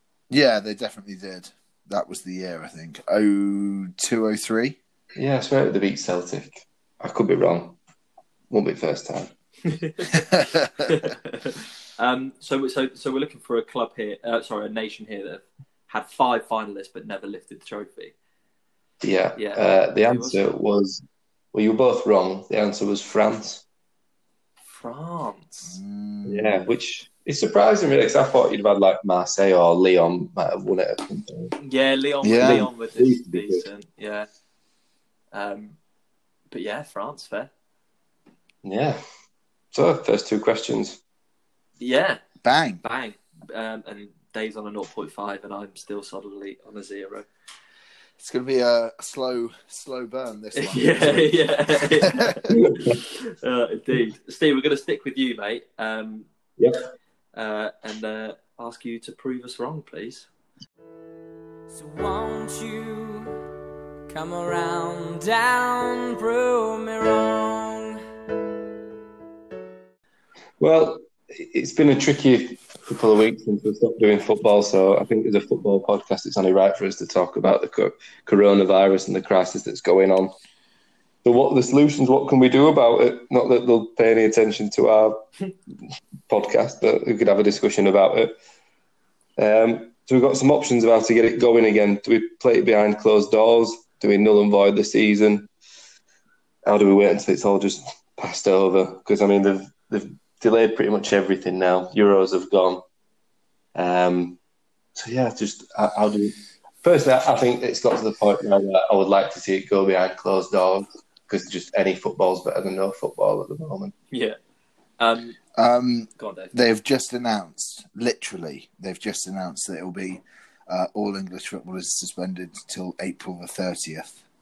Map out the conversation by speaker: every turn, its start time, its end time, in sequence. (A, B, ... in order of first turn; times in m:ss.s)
0:00.3-0:04.8 A
0:05.2-0:07.8 B
0:08.5-0:09.3 B
0:09.6-0:18.1 C
0:10.3-0:10.6 A
0:19.0-0:21.0 B
0:19.4-0:20.4 C
0:21.5-0:23.6 B
0:24.7-0:25.8 C
0:25.6-0:26.7 A
0:26.2-0:31.5 B
0:31.6-0:34.3 C
0:32.2-0:32.7 A
0:32.3-0:33.6 B
0:35.3-0:35.8 C
0:36.5-0:37.5 C
0:38.6-0:39.0 B
0:39.7-0:41.0 B
0:41.8-0:42.2 C
0:42.4-0:42.8 A
0:42.8-0:47.3 C
0:48.2-0:52.6 A
0:50.5-0:56.3 C
0:52.5-0:53.0 B
0:56.6-0:56.8 B
0:57.3-1:00.3 C
1:01.7-1:03.4 D
1:04.1-1:08.0 D
1:10.6-1:20.3 B
1:21.2-1:25.2 B
1:26.3-1:28.3 B
1:29.4-1:35.5 B
1:36.6-1:42.8 B
1:43.7-1:44.4 B
1:45.0-1:53.9 B
1:54.1-1:54.4 C
1:55.0-1:55.4 C
1:55.6-2:04.1 A
1:56.2-1:56.5 C